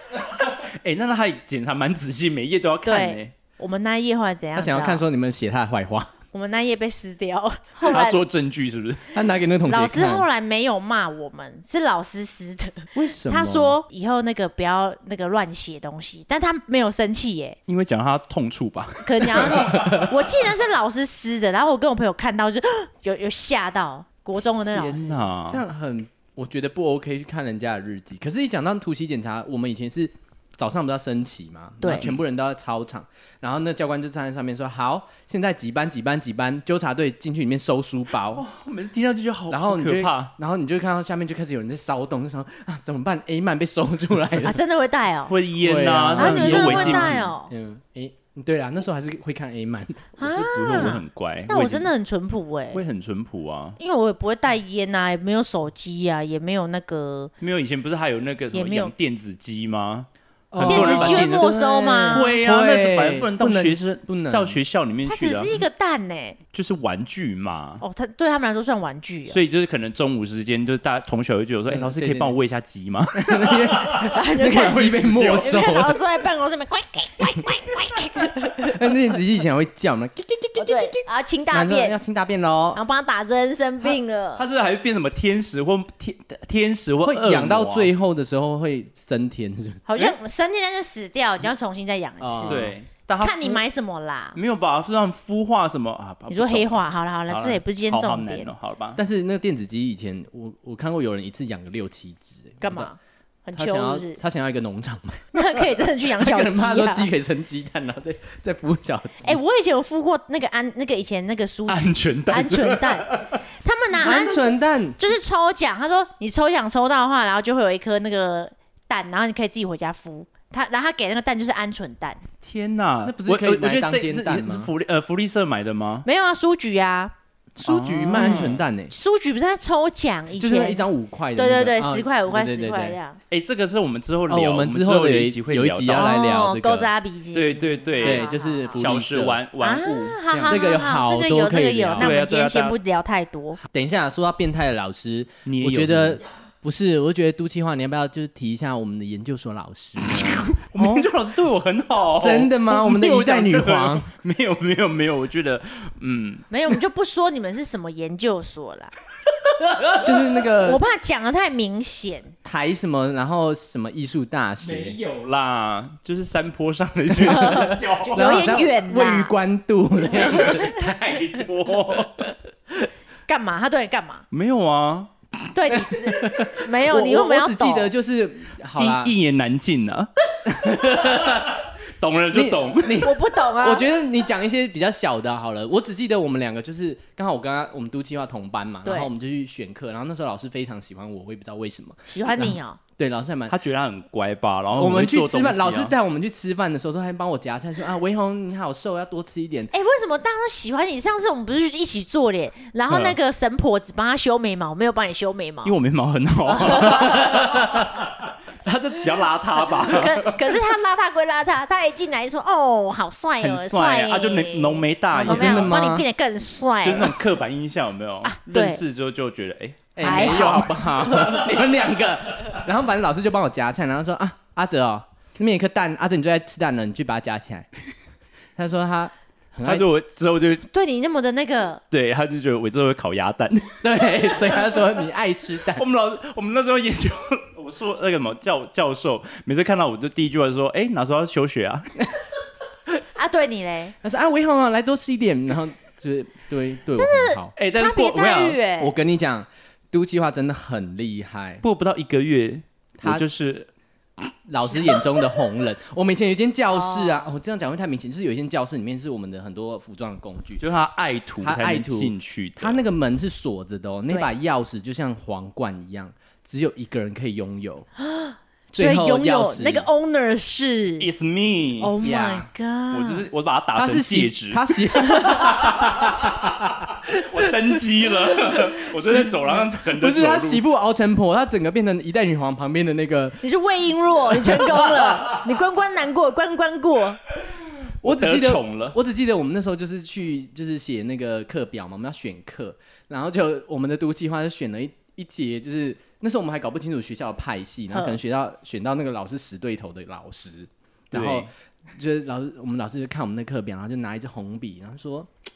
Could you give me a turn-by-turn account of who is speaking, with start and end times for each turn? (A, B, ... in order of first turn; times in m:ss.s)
0:00.2-0:03.3 A
0:02.8-0:05.0 B
0:04.6-0:06.1 C
0:06.3-0:08.2 B
0:07.8-0:09.0 A
0:09.1-0:10.3 C
0:09.7-0:17.6 B
0:13.0-0:13.8 C
0:17.7-0:20.0 A
0:19.0-0:25.2 B
0:19.7-0:20.0 C
0:24.8-0:25.6 A
0:24.9-0:38.4 C
0:31.8-0:32.1 B
0:31.9-0:32.2 A
0:38.3-0:40.3 A
0:39.5-0:44.6 C
0:44.4-0:45.4 B
0:45.3-0:47.3 A
0:45.6-0:50.2 C
0:46.2-0:47.5 B
0:50.2-0:51.9 A
0:50.2-0:52.8 B
0:52.7-0:53.8 A
0:53.8-0:57.3 B
0:57.4-1:05.6 A
0:58.5-0:58.9 B
1:00.5-1:04.6 C
1:00.6-1:02.2 B
1:05.1-1:06.4 B
1:06.5-1:07.8 A
1:07.8-1:09.4 B
1:09.3-1:14.1 A
1:11.7-1:12.4 C
1:13.1-1:16.0 C
1:14.1-1:18.8 B
1:15.0-1:15.5 A
1:18.7-1:22.8 C
1:20.6-1:22.0 B
1:22.7-1:24.5 B
1:24.4-1:27.9 A
1:27.0-1:29.9 C
1:29.9-1:32.6 B
1:32.2-1:32.7 C
1:32.5-1:33.6 A
1:33.2-1:34.4 B
1:34.4-1:39.0 A
1:36.3-1:38.5 B
1:39.0-1:42.9 C
1:42.6-1:44.2 B
1:43.6-1:49.4 C
1:45.3-1:47.1 B
1:49.2-2:02.2 B
1:51.7-1:53.4 A
1:53.9-1:55.0 C
2:02.4-2:06.1 A
2:03.0-2:04.7 C
2:06.0-2:07.1 B
2:07.6-2:08.9 C
2:07.6-2:08.7 A
2:08.2-2:13.2 B
2:10.4-2:13.0 C
2:13.3-2:16.2 A
2:14.3-2:16.9 C
2:15.9-2:18.8 B
2:17.3-2:20.6 A
2:18.0-2:19.4 C
2:19.6-2:23.6 B
2:20.3-2:22.1 C
2:22.0-2:22.8 A
2:23.7-2:30.5 C
2:25.5-2:26.2 A
2:30.0-2:36.4 A
2:30.8-2:31.0 B
2:32.2-2:34.1 C
2:36.5-2:38.9 B
2:39.8-2:40.1 A
2:40.0-2:40.8 C
2:40.6-2:42.3 B
2:42.4-2:45.0 C
2:44.6-2:48.6 A
2:47.2-2:51.2 C
2:47.2-2:49.3 B
2:50.1-2:52.2 A
2:51.9-2:52.2 C
2:53.3-2:54.2 B
2:54.3-2:55.1 A
2:55.5-2:57.9 B
2:55.8-2:59.1 C
2:58.8-3:00.1 A
3:00.5-3:01.6 C
3:00.7-3:03.1 A
3:02.3-3:13.6 C
3:03.0-3:03.9 B
3:08.8-3:09.1 B
3:12.1-3:12.8 B
3:13.5-3:16.0 A
3:14.8-3:19.7 C
3:19.7-3:25.7 B
3:22.9-3:23.2 A
3:25.6-3:30.6 A
3:29.9-3:37.2 B
3:33.4-3:35.7 A
3:35.2-3:36.1 C
3:36.8-3:41.3 A
3:38.2-3:38.8 B
3:40.0-3:47.7 C
3:40.0-3:41.4 B
3:48.6-3:49.9 C
3:49.7-3:50.7 A
3:50.7-3:51.8 B
3:51.9-3:54.4 A
3:53.8-3:55.8 C
3:55.7-4:02.0 A
4:03.2-4:04.0 B
4:04.0-4:07.5 C
4:07.0-4:08.9 B
4:07.6-4:08.6 A
4:08.8-4:11.6 C
4:11.6-4:13.7 A
4:14.5-4:20.7 C
4:16.7-4:17.3 B
4:20.6-4:22.8 A
4:21.4-4:27.9 C
4:28.0-4:31.1 B
4:28.7-4:29.9 C
4:31.0-4:31.9 A
4:31.8-4:33.2 B
4:32.0-4:32.5 C
4:32.9-4:34.8 A
4:33.8-4:43.5 C
4:35.3-4:35.6 B
4:35.6-4:40.6 A
4:43.4-4:47.2 B
4:48.0-5:05.3 C
4:48.0-4:49.0 A
4:57.9-4:58.2 B
5:01.1-5:01.5 A